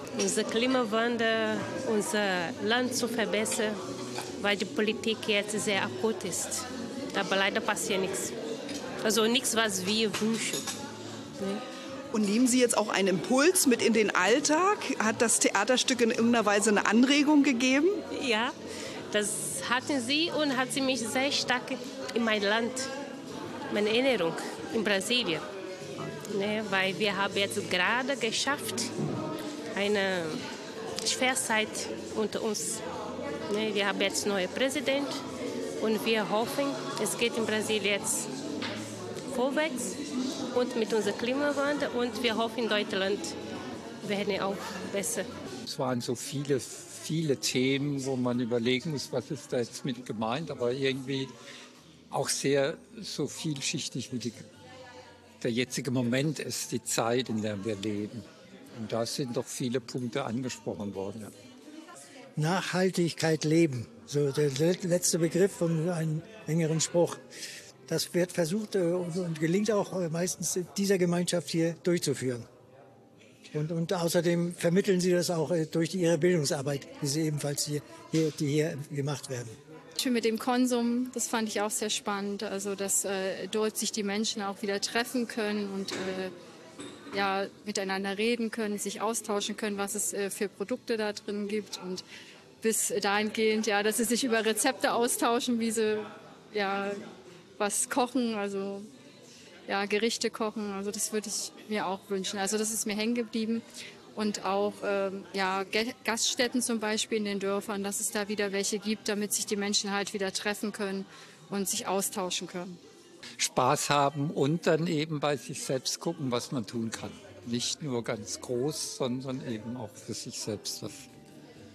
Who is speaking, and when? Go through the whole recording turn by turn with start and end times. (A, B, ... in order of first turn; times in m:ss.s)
0:00.2-0:03.8 A
0:04.4-0:08.3 A
0:09.0-0:10.7 A
0:12.1-0:18.0 B
0:18.1-0:18.6 A
0:19.1-0:22.9 A
0:23.7-0:25.5 A
0:26.3-0:28.9 A
0:29.8-0:30.4 A
0:31.0-0:32.8 A
0:33.5-0:35.2 A
0:35.8-0:38.3 A
0:39.3-0:40.0 A
0:40.5-0:43.4 A
0:44.0-0:45.3 A
0:45.7-0:51.3 C
0:52.1-0:54.4 C
0:55.4-1:01.3 C
1:02.4-1:07.2 D
1:07.9-1:12.5 D
1:13.5-1:19.6 D
1:20.0-1:26.3 E
1:27.1-1:32.0 E
1:32.6-1:38.9 E
1:39.7-1:52.8 E
1:53.4-2:01.1 C